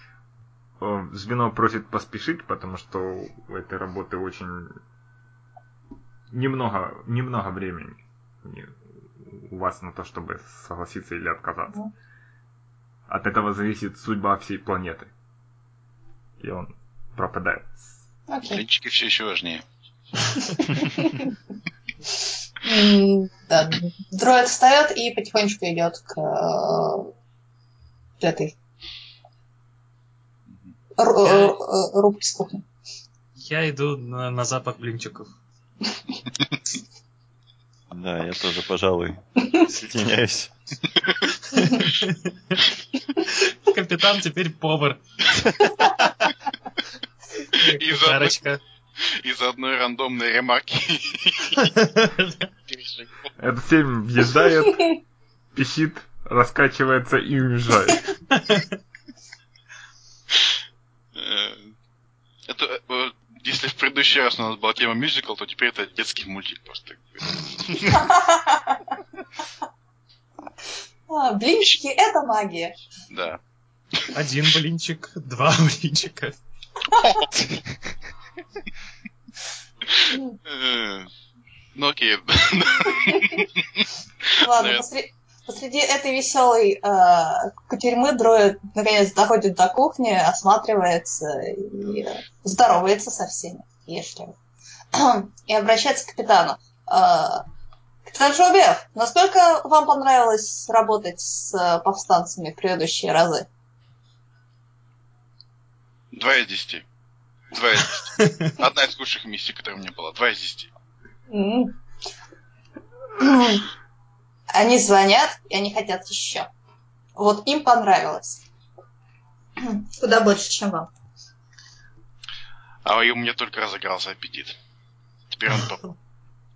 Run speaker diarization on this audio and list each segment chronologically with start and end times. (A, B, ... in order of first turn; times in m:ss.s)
0:00.8-0:04.8 A
0:06.3-0:11.8 A
0:13.1-0:15.1 A
0:16.4-0:17.9 A
0:18.3-0:18.6 B
0:18.5-0:19.6 C
0:20.4-0:21.3 B
0:22.6-0:27.1 B
0:28.2-0:28.5 B
0:31.0-0:32.6 B
0:31.2-0:31.6 D
0:33.4-0:35.3 D
0:37.9-0:40.5 E
0:41.5-0:42.6 D
0:43.2-0:45.0 D
0:47.5-0:48.6 D
0:47.6-0:48.4 C
0:49.0-0:51.6 C
0:51.6-0:52.5 D
0:52.7-0:53.3 C
0:53.4-0:55.0 A
0:55.5-0:58.1 A
0:58.3-0:58.7 D
1:01.1-1:01.7 C
1:02.5-1:08.0 C
1:07.9-1:08.9 B
1:11.1-1:12.8 B
1:13.1-1:13.4 C
1:14.1-1:16.4 D
1:19.9-1:21.1 C
1:20.1-1:20.4 B
1:21.7-1:23.9 C
1:24.4-1:34.4 B
1:24.5-1:24.8 C
1:34.9-1:37.4 B
1:38.1-1:43.5 B
1:46.1-1:46.8 C
1:47.5-1:50.7 C
1:48.2-1:48.5 D
1:51.3-1:51.7 B
1:53.2-1:53.7 B
1:54.5-1:56.5 B
1:57.2-1:58.4 B
1:59.6-2:00.9 B
2:02.8-2:04.6 C
2:05.3-2:05.9 C